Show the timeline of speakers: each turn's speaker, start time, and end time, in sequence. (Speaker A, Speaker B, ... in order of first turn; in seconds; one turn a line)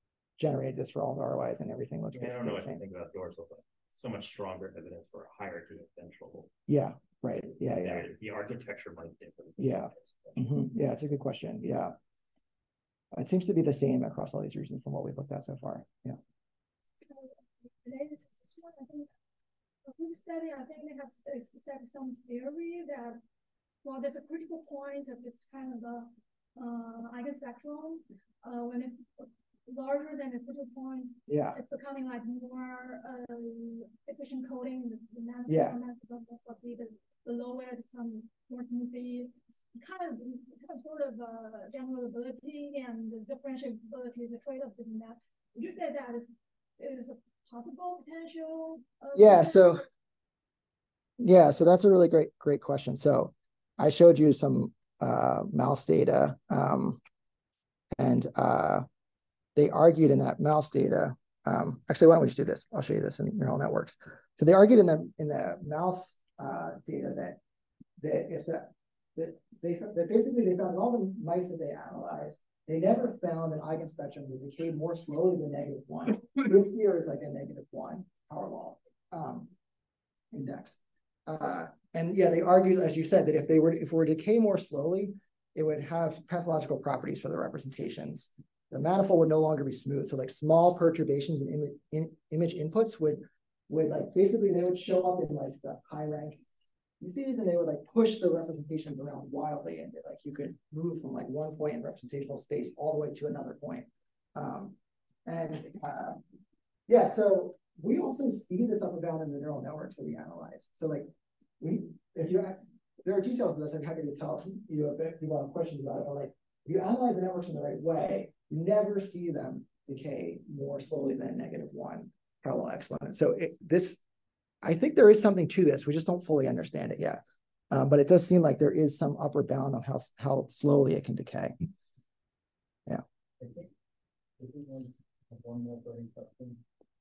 Speaker A: 0.4-2.8
Speaker B: 2.1-6.5
Speaker A: 6.7-8.1
Speaker B: 7.8-10.4
Speaker A: 9.6-11.9
Speaker A: 13.1-16.2
Speaker C: 17.0-19.1
Speaker C: 19.8-23.2
Speaker C: 23.8-49.8
Speaker A: 31.3-31.6
Speaker A: 35.5-35.8
Speaker A: 49.1-49.8
Speaker A: 51.2-57.0
Speaker A: 58.0-58.9
Speaker A: 59.5-67.4
Speaker A: 68.0-79.5
Speaker A: 80.3-96.4
Speaker A: 97.0-104.7
Speaker A: 105.2-106.2
Speaker A: 106.9-111.1
Speaker A: 111.6-124.0
Speaker A: 124.6-131.5
Speaker D: 133.4-133.7
Speaker D: 134.4-136.6